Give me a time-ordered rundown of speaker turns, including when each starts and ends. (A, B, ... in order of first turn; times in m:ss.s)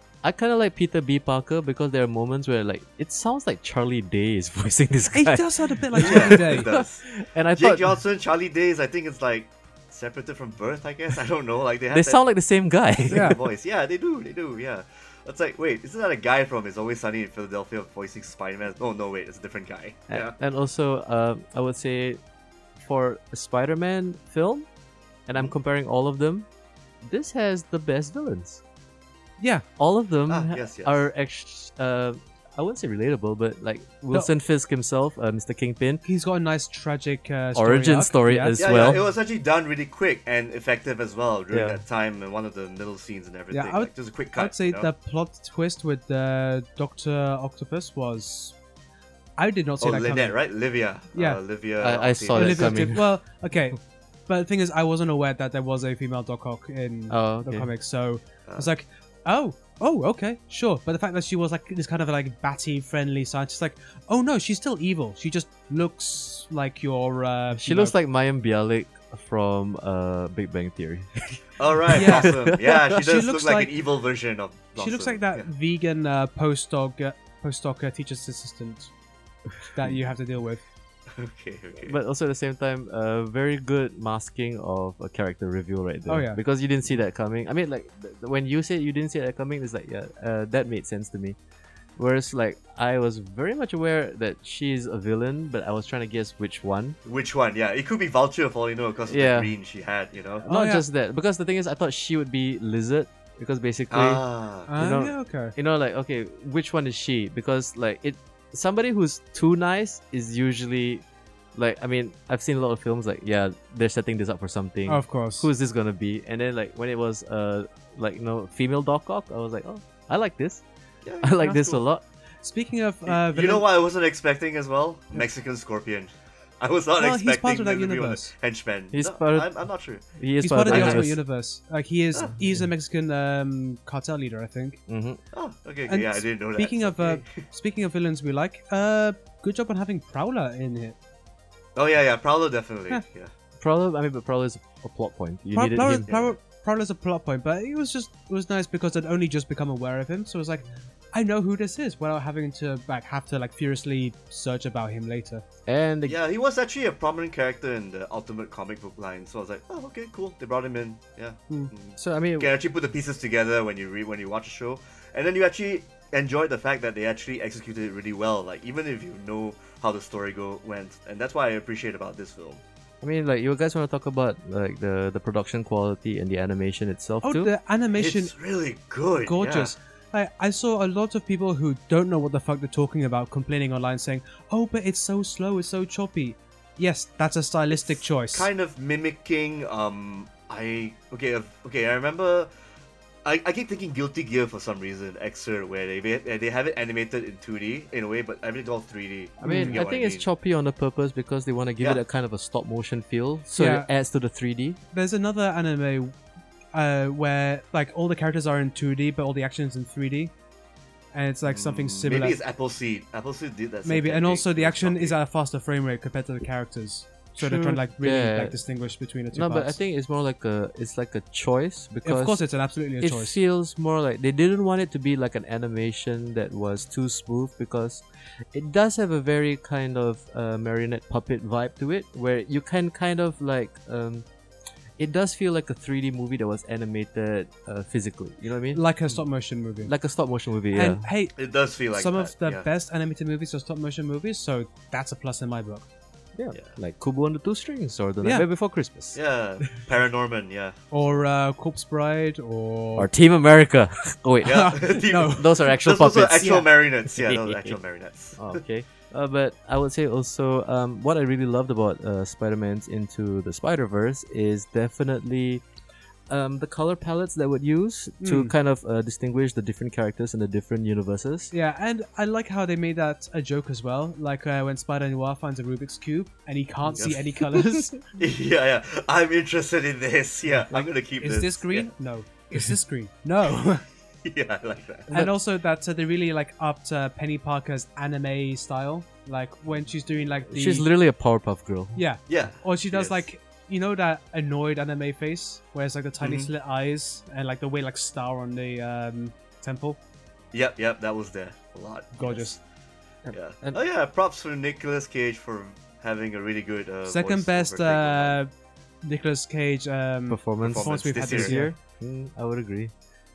0:00.2-0:08.0 A
0:05.1-0:06.7 B
0:06.0-0:12.2 C
0:11.9-0:13.4 A
0:13.0-0:20.4 C
0:13.1-0:13.4 B
0:20.1-0:22.2 A
0:22.8-0:24.7 A
0:25.3-0:26.5 A
0:27.0-0:28.6 A
0:29.4-0:29.6 B
0:29.8-0:36.0 A
0:30.3-0:31.1 C
0:36.0-0:39.0 B
0:37.6-0:39.0 A
0:38.6-0:44.9 C
0:41.5-0:41.8 A
0:43.5-0:48.6 B
0:49.4-0:50.4 B
0:49.8-0:53.0 C
0:51.2-0:51.4 B
0:51.8-0:53.0 A
0:52.3-1:08.0 B
0:57.1-0:57.7 A
1:07.6-1:12.8 A
1:11.6-1:15.5 C
1:12.0-1:13.7 B
1:14.8-1:18.9 B
1:19.7-1:20.6 B
1:21.1-1:22.0 C
1:21.8-1:31.4 A
1:26.1-1:26.4 B
1:32.0-1:37.0 A
1:37.0-1:40.5 C
1:39.1-1:39.5 A
1:40.4-1:44.2 A
1:40.5-1:40.8 B
1:43.9-1:44.7 C
1:44.7-1:45.5 B
1:44.8-1:51.0 A
1:51.6-2:00.6 A
1:54.9-1:55.5 B
2:01.0-2:01.8 C
2:01.2-2:02.0 A
2:02.4-2:03.7 B
2:03.1-2:10.0 C
2:07.0-2:08.3 B
2:08.9-2:09.5 A
2:10.1-2:11.2 A
2:10.4-2:14.8 B
2:10.7-2:11.1 C
2:14.9-2:15.2 A
2:15.3-2:17.4 C
2:15.9-2:21.0 B
2:21.8-2:23.3 C
2:23.6-2:26.1 A
2:25.6-2:35.4 B
2:26.1-2:26.4 C
2:35.7-2:36.2 A
2:36.1-2:52.6 C
2:42.0-2:42.5 A
2:53.0-2:57.5 A
2:57.2-2:58.3 B
2:58.0-2:59.8 C
2:59.3-3:08.5 B
3:07.7-3:12.5 C
3:13.2-3:20.3 C
3:19.4-3:24.8 A
3:19.4-3:19.8 B
3:23.6-3:23.9 B
3:24.9-3:26.1 B
3:26.7-3:30.3 B
3:31.1-3:32.4 B
3:31.4-3:35.2 C
3:33.8-3:39.8 B
3:37.4-3:38.6 A
3:39.3-3:42.4 A
3:42.0-3:43.4 B
3:43.0-3:54.3 A
3:55.0-3:58.8 A
3:58.7-3:59.9 B
3:59.8-4:01.1 A
4:00.7-4:01.4 B
4:01.4-4:02.7 C
4:01.9-4:05.9 B
4:06.4-4:09.2 A
4:09.2-4:11.2 C
4:10.9-4:13.1 B
4:13.0-4:17.8 A
4:14.4-4:18.6 C
4:14.5-4:15.5 B
4:18.4-4:25.6 A
4:26.3-4:31.5 A
4:28.2-4:28.5 B
4:31.5-4:38.0 B
4:36.9-4:37.2 C
4:37.0-4:37.9 A
4:38.2-4:41.9 C
4:40.8-4:43.8 B
4:44.2-4:45.1 C
4:45.1-4:50.9 B
4:50.5-4:52.0 A
4:52.0-5:00.0 B
4:52.3-4:53.2 C
4:56.2-4:56.5 C
5:00.5-5:02.6 C
5:02.2-5:02.6 B
5:03.3-5:03.8 A
5:03.3-5:08.4 C
5:07.1-5:08.5 B
5:09.0-5:11.8 B
5:10.3-5:12.9 A
5:10.6-5:11.7 C